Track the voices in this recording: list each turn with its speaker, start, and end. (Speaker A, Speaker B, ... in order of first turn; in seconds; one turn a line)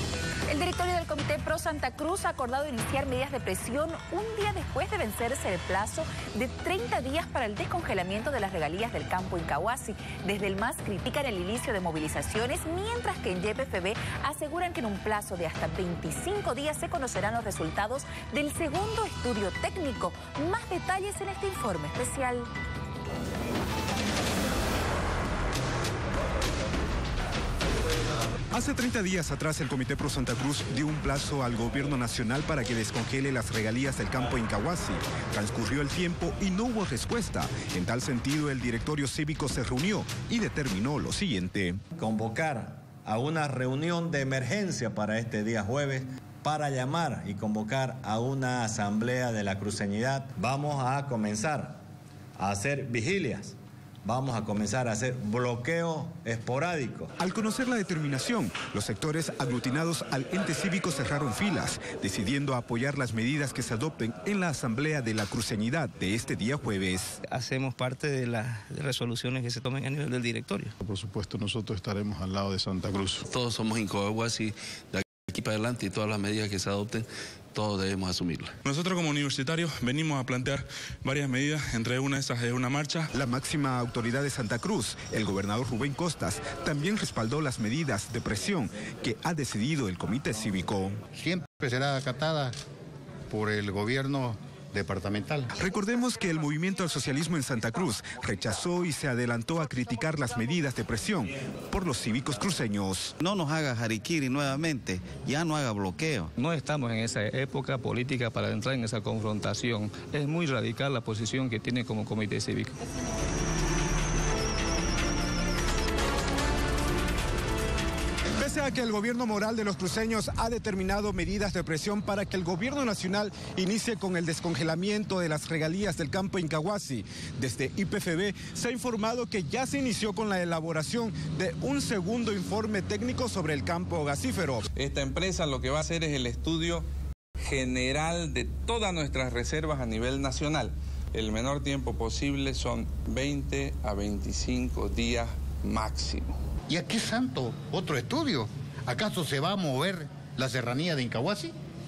Speaker A: 0.5-22.5
Speaker B: 28.5-41.8
Speaker C: 42.0-51.8
Speaker C: 52.4-57.1
Speaker B: 57.2-67.2
Speaker D: 67.3-70.7
Speaker E: 70.8-73.2
Speaker F: 73.3-78.6
Speaker G: 78.6-83.1
Speaker B: 83.1-91.0
Speaker H: 91.2-92.5
Speaker H: 93.3-95.5
Speaker B: 95.5-103.1
Speaker I: 103.2-106.3
Speaker J: 106.4-112.8
Speaker B: 118.4-134.7
Speaker K: 134.8-136.8
Speaker K: 137.4-146.3
Speaker H: 146.7-151.5